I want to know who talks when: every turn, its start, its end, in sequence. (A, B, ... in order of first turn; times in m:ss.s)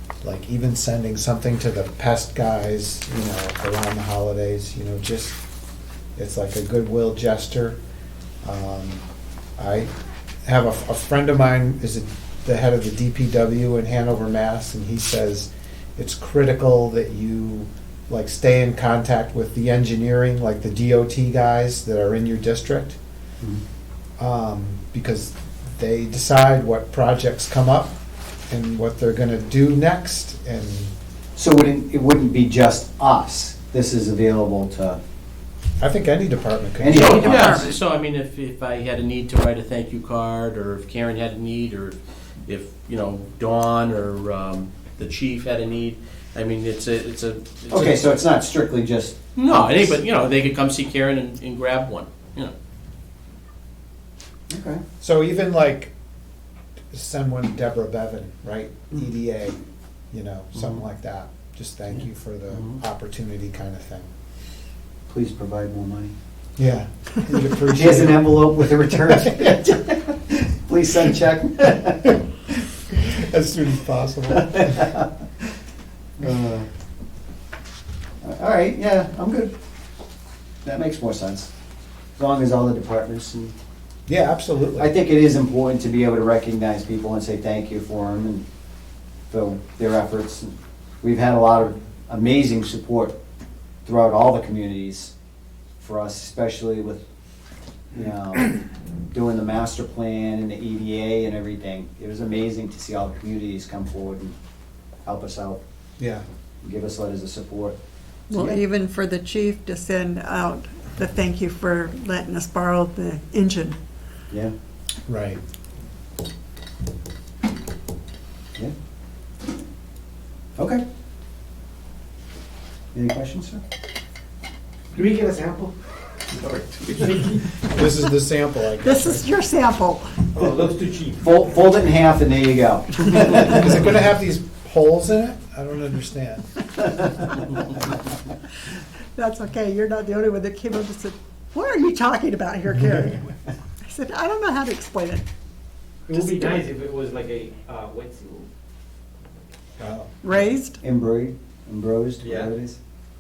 0:00.2-0:05.4 A
0:06.2-0:07.8 A
0:08.4-0:09.0 A
0:09.6-0:09.9 A
0:10.4-0:23.0 A
0:24.2-0:27.9 A
0:28.5-0:30.9 A
0:31.4-0:35.0 B
0:35.8-0:37.6 A
0:36.8-0:37.7 B
0:36.9-0:48.2 C
0:37.1-0:37.7 D
0:47.7-0:49.2 B
0:49.3-0:52.5 C
0:54.5-0:54.8 B
0:55.0-0:55.9 A
0:56.9-0:59.6 A
1:00.1-1:04.1 A
1:05.1-1:06.1 B
1:06.6-1:08.5 A
1:07.6-1:12.2 B
1:09.1-1:09.5 A
1:12.9-1:15.0 A
1:14.3-1:15.5 B
1:16.2-1:16.7 B
1:18.2-1:19.5 B
1:20.6-1:21.5 B
1:22.2-1:23.5 B
1:24.1-1:24.9 A
1:24.8-1:28.4 B
1:29.3-1:33.1 B
1:33.8-1:35.1 B
1:35.8-1:37.0 B
1:37.9-1:44.3 B
1:45.0-1:45.6 B
1:46.0-1:46.2 A
1:46.6-1:47.8 B
1:48.3-1:53.8 D
1:55.1-1:55.4 A
2:00.6-2:00.8 B
2:02.9-2:03.6 B
2:04.9-2:05.7 E
2:06.3-2:07.6 E
2:07.7-2:09.2 A
2:08.8-2:10.3 D
2:10.3-2:11.2 E
2:11.2-2:13.9 B
2:13.2-2:16.6 A
2:19.2-2:25.2 D
2:26.1-2:28.5 E
2:29.8-2:30.3 A
2:30.2-2:30.8 D
2:30.8-2:32.8 B
2:32.2-2:32.5 E